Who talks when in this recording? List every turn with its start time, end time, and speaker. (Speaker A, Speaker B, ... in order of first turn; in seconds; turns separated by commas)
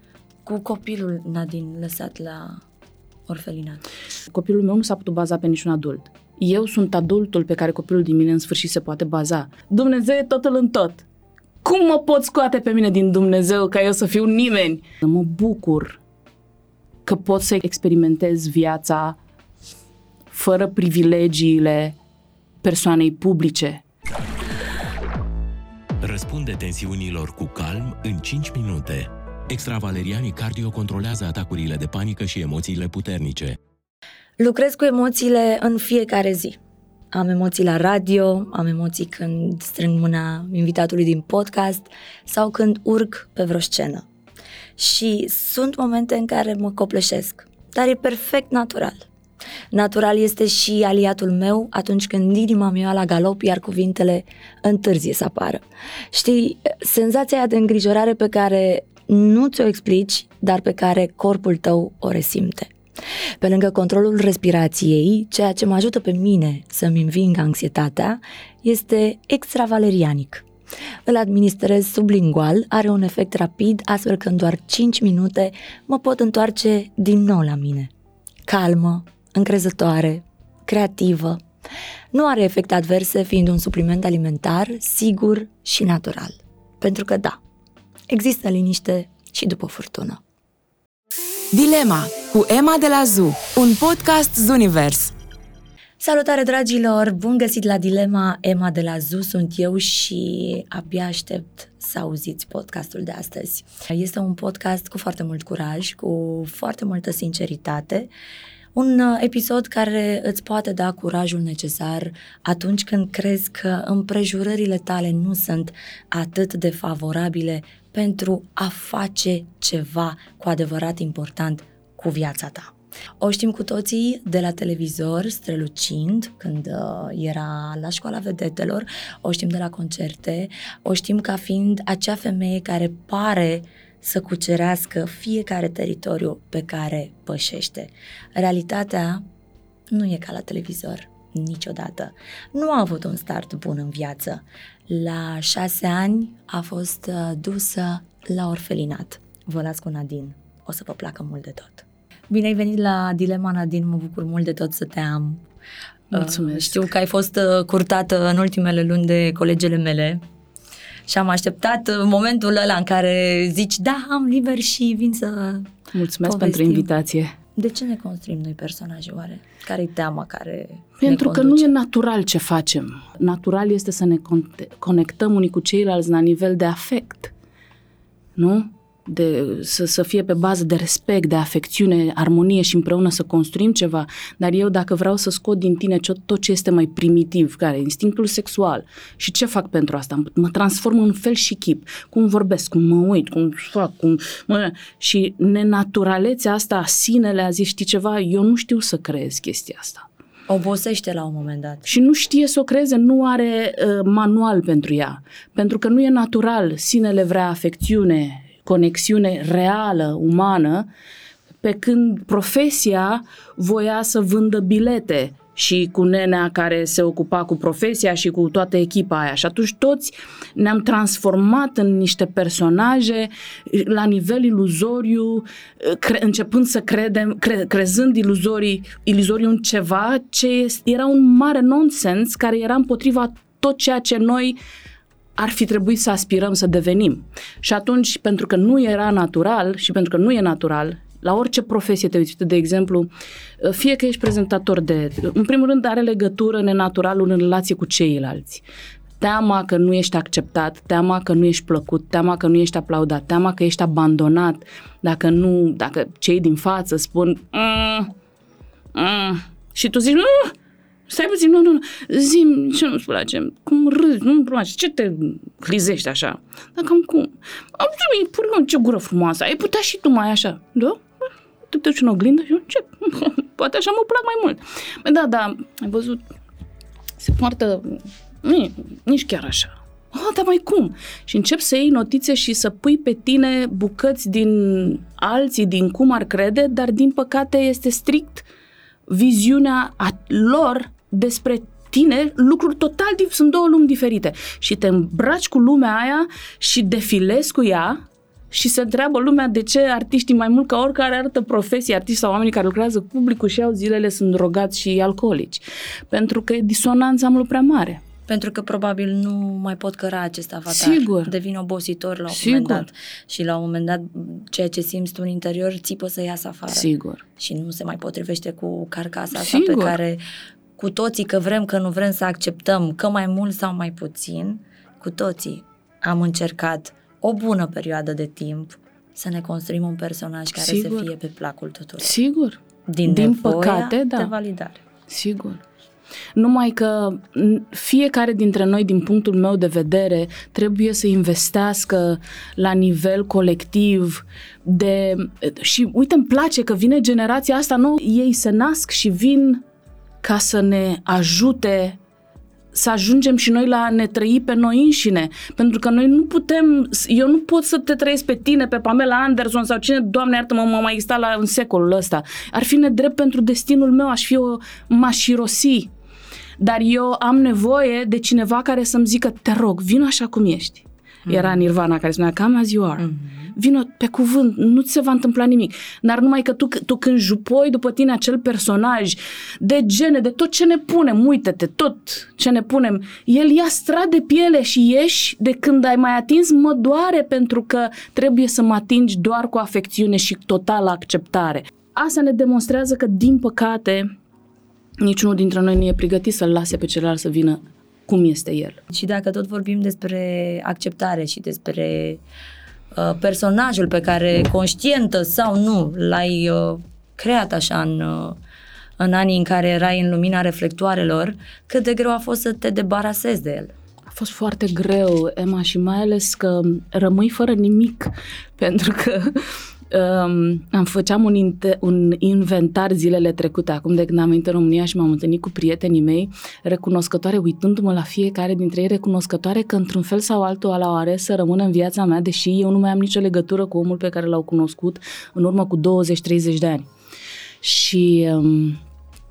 Speaker A: 0.5-2.6, Speaker A: 3.3-3.8, Speaker B: 4.3-11.1, Speaker B: 11.6-16.0, Speaker B: 17.1-19.2, Speaker B: 20.3-22.0, Speaker B: 22.6-23.8, Speaker C: 26.0-33.6, Speaker A: 34.4-36.6, Speaker A: 37.1-44.1, Speaker A: 44.8-49.1, Speaker A: 49.7-62.7, Speaker A: 63.4-70.5, Speaker A: 71.0-77.9, Speaker A: 78.5-81.4, Speaker A: 82.1-87.4, Speaker A: 88.1-90.2, Speaker D: 91.5-95.1, Speaker A: 96.0-108.1, Speaker A: 108.8-139.2, Speaker A: 139.9-155.4, Speaker B: 156.1-156.9, Speaker A: 156.1-160.2, Speaker A: 161.1-166.9, Speaker B: 165.9-167.3, Speaker A: 167.6-171.7, Speaker B: 171.0-177.3, Speaker B: 178.4-200.1, Speaker A: 200.5-201.9, Speaker B: 201.9-210.9, Speaker B: 211.6-234.6, Speaker B: 235.4-248.6, Speaker B: 249.2-258.1, Speaker B: 258.9-260.5, Speaker B: 261.1-271.1, Speaker B: 271.7-276.2, Speaker B: 277.2-288.5, Speaker B: 289.1-298.0, Speaker B: 298.5-308.0, Speaker A: 308.3-316.9, Speaker B: 310.7-311.3, Speaker B: 312.3-312.9, Speaker B: 316.7-317.2, Speaker A: 317.4-320.2, Speaker B: 319.3-320.0, Speaker A: 320.8-332.2, Speaker B: 330.6-331.1, Speaker B: 332.0-334.3, Speaker A: 332.9-334.8, Speaker B: 335.1-335.6, Speaker B: 336.4-349.6, Speaker B: 350.2-352.0, Speaker B: 352.7-365.9, Speaker B: 366.6-394.1, Speaker A: 371.3-371.6, Speaker A: 373.0-373.4, Speaker B: 395.0-398.8, Speaker A: 398.9-402.2, Speaker A: 402.9-408.4, Speaker A: 409.0-413.7, Speaker B: 414.1-436.9, Speaker B: 437.6-438.8